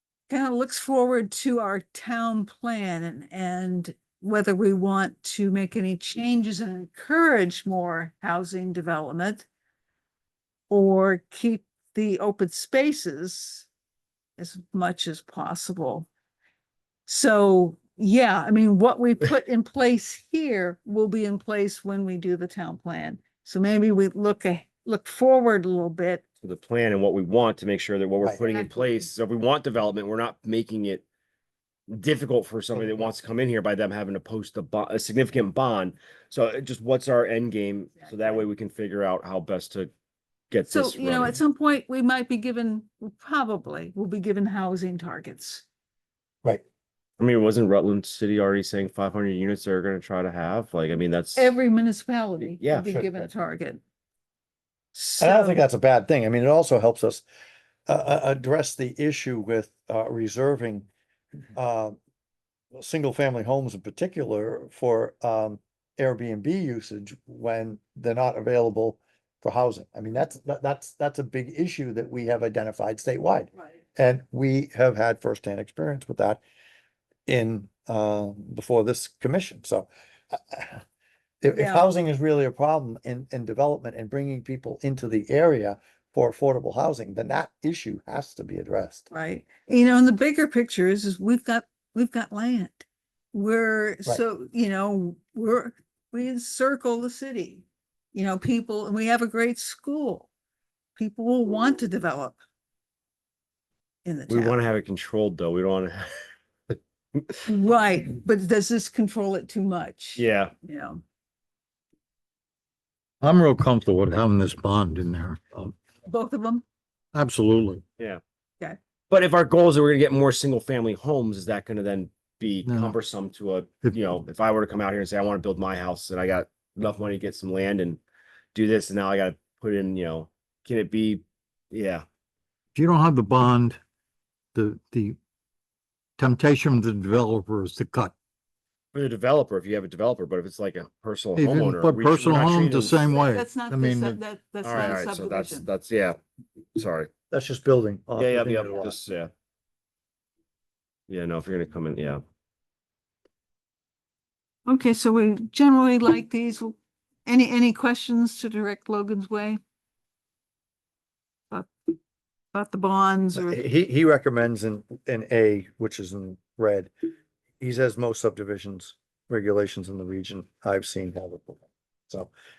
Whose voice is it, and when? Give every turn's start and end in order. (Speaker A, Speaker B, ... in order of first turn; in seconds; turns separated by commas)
Speaker A: 0.3-9.5, Speaker A: 10.7-13.7, Speaker A: 14.4-16.1, Speaker A: 17.1-26.2, Speaker B: 26.4-31.1, Speaker A: 28.4-29.1, Speaker B: 31.9-39.9, Speaker A: 37.9-38.5, Speaker B: 40.5-41.4, Speaker A: 40.7-45.6, Speaker B: 47.2-51.5, Speaker A: 51.4-53.8, Speaker B: 52.4-53.3, Speaker A: 55.0-55.6, Speaker C: 55.2-57.2, Speaker C: 57.9-60.9, Speaker C: 61.5-62.0, Speaker C: 62.7-76.4, Speaker C: 77.3-80.8, Speaker C: 81.4-89.1, Speaker A: 81.5-82.0, Speaker A: 89.1-100.3, Speaker A: 101.0-102.4, Speaker A: 104.0-104.6, Speaker B: 104.3-106.2, Speaker B: 107.2-107.4, Speaker A: 107.5-111.0, Speaker B: 110.2-110.5, Speaker D: 113.2-115.8, Speaker A: 116.1-116.6, Speaker D: 117.1-117.8, Speaker B: 119.1-128.0, Speaker D: 122.7-122.9, Speaker B: 128.5-132.1, Speaker D: 132.8-133.8, Speaker D: 134.6-135.2, Speaker D: 136.2-138.1, Speaker B: 138.9-143.0, Speaker D: 141.4-144.2, Speaker A: 143.1-145.7, Speaker B: 144.6-146.2, Speaker B: 146.8-147.1, Speaker C: 147.3-149.0, Speaker B: 148.2-149.3, Speaker B: 151.1-152.2, Speaker A: 154.7-159.6, Speaker A: 161.5-162.0, Speaker A: 162.5-163.6, Speaker C: 163.3-166.9, Speaker C: 167.6-172.3